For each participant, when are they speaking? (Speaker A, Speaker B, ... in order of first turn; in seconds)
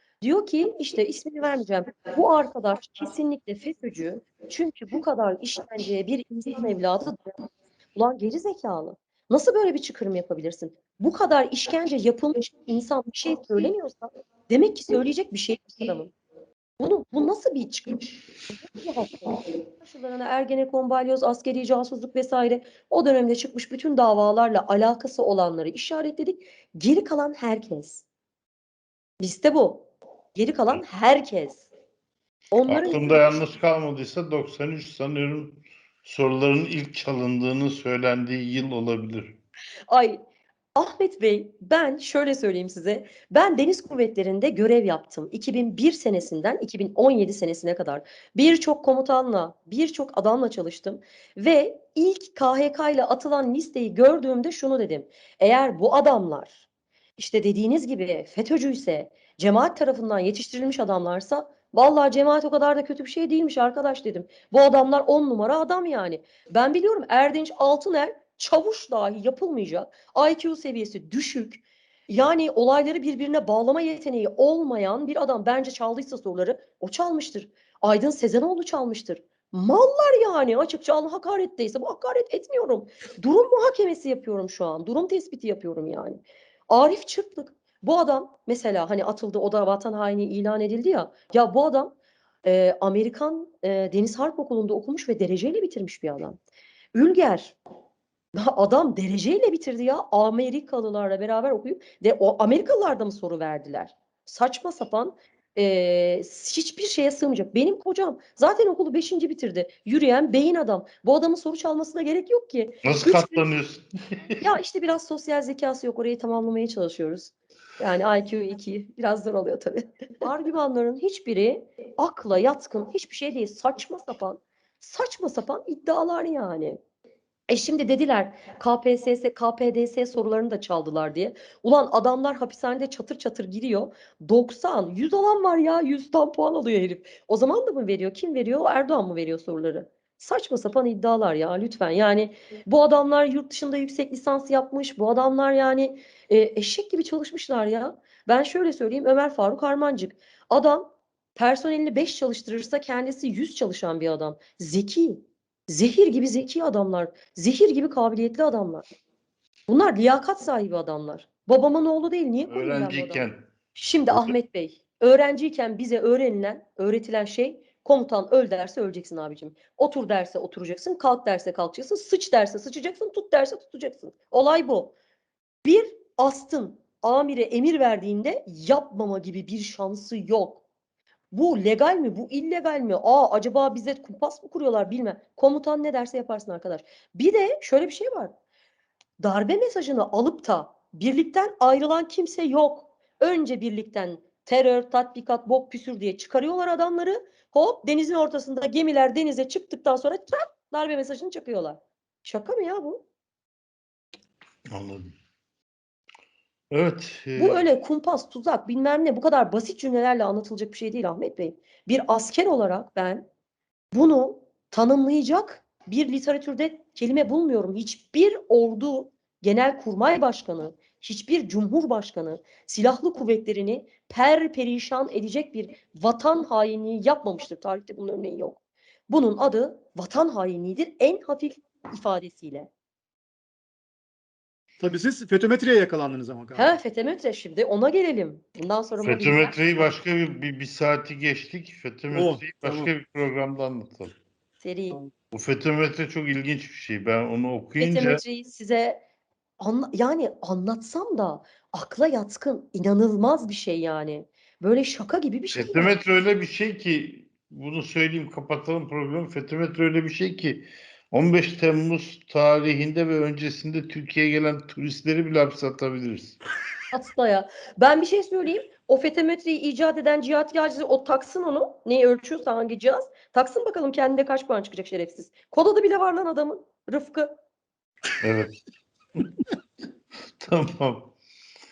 Speaker A: 0.2-7.3, 8.0-16.1, 16.8-28.0, 29.2-31.7, 32.5-33.4, 39.9-40.2, 40.8-56.6, 57.2-91.9, 92.5-96.4, 97.0-97.6, 98.3-113.5, 114.4-126.8, 127.5-150.8, 151.4-158.8, 159.7-174.9, 175.6-180.6, 181.3-188.3, 189.2-203.0, 207.4-213.3, 213.9-232.7, 236.6-239.9, 244.6-245.0, 247.8-249.0, 249.6-256.0, 266.9-277.3
Speaker B: 32.7-39.4, 112.8-114.5, 162.4-163.5, 164.1-164.3, 204.7-205.1, 206.7-207.7, 239.0-244.2, 245.2-248.2, 255.5-266.4, 278.2-278.6, 280.4-281.1
Speaker C: 234.8-236.8, 242.1-242.9